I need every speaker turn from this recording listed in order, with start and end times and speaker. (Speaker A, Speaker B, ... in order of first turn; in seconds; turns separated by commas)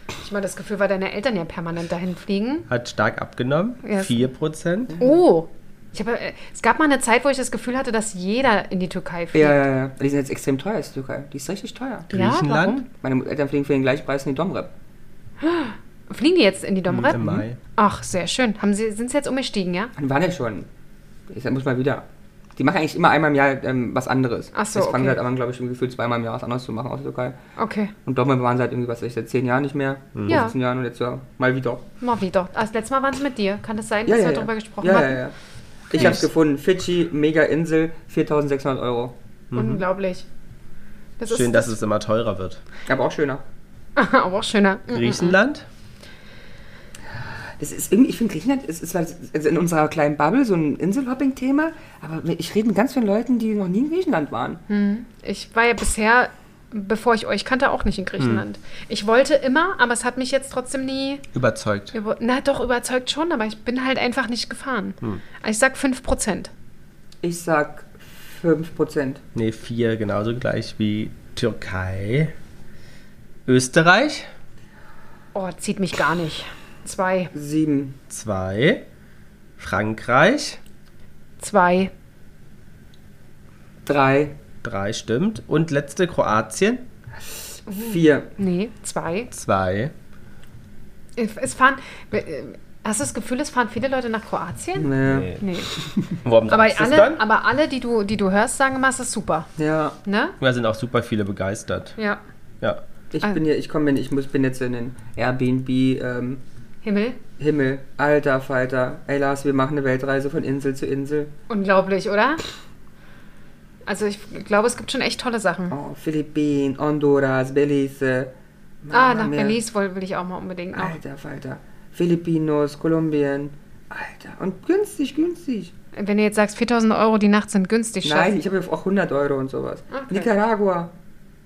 Speaker A: 0.2-2.7, Speaker B: 2.7-5.0, Speaker A: 3.8-4.2, Speaker A: 5.0-9.6, Speaker C: 9.3-12.1, Speaker A: 12.1-12.8, Speaker B: 12.1-12.8, Speaker C: 12.9-14.7, Speaker A: 15.4-19.9, Speaker B: 16.9-17.6, Speaker C: 17.0-17.4, Speaker C: 20.0-20.7, Speaker C: 21.3-27.4, Speaker A: 24.5-25.2, Speaker A: 27.6-27.9, Speaker C: 28.1-31.8, Speaker B: 30.1-30.4, Speaker A: 30.3-30.5, Speaker A: 32.0-35.3, Speaker C: 34.1-35.3, Speaker C: 35.9-39.1, Speaker B: 35.9-36.2, Speaker B: 39.5-39.8, Speaker A: 39.5-40.2, Speaker A: 41.2-41.7, Speaker B: 41.3-42.6, Speaker C: 42.9-43.4, Speaker A: 44.0-45.4, Speaker B: 44.9-45.6, Speaker C: 47.6-54.6, Speaker A: 54.7-61.2, Speaker B: 58.2-58.4, Speaker B: 61.3-61.9, Speaker A: 61.9-66.5, Speaker C: 67.2-69.2, Speaker B: 69.3-72.3, Speaker B: 73.5-74.3, Speaker A: 75.3-77.3, Speaker C: 77.3-78.0, Speaker B: 78.1-78.8, Speaker B: 79.6-80.6, Speaker A: 81.4-81.9, Speaker C: 83.9-84.4, Speaker B: 84.6-86.8, Speaker C: 87.7-88.3, Speaker A: 87.7-89.3, Speaker B: 89.3-89.9, Speaker A: 91.2-95.7, Speaker C: 94.8-95.3, Speaker B: 95.1-95.4, Speaker B: 96.2-97.2, Speaker A: 96.5-99.5, Speaker C: 99.6-100.0, Speaker A: 100.0-100.4, Speaker B: 100.4-102.0, Speaker C: 103.1-106.4, Speaker A: 106.8-107.2, Speaker C: 107.4-111.3, Speaker A: 111.5-112.4, Speaker A: 113.9-115.7, Speaker C: 115.7-118.3, Speaker C: 118.8-119.6, Speaker A: 118.9-121.0, Speaker C: 120.7-125.7, Speaker A: 125.9-128.3, Speaker C: 128.0-130.9, Speaker A: 129.9-130.3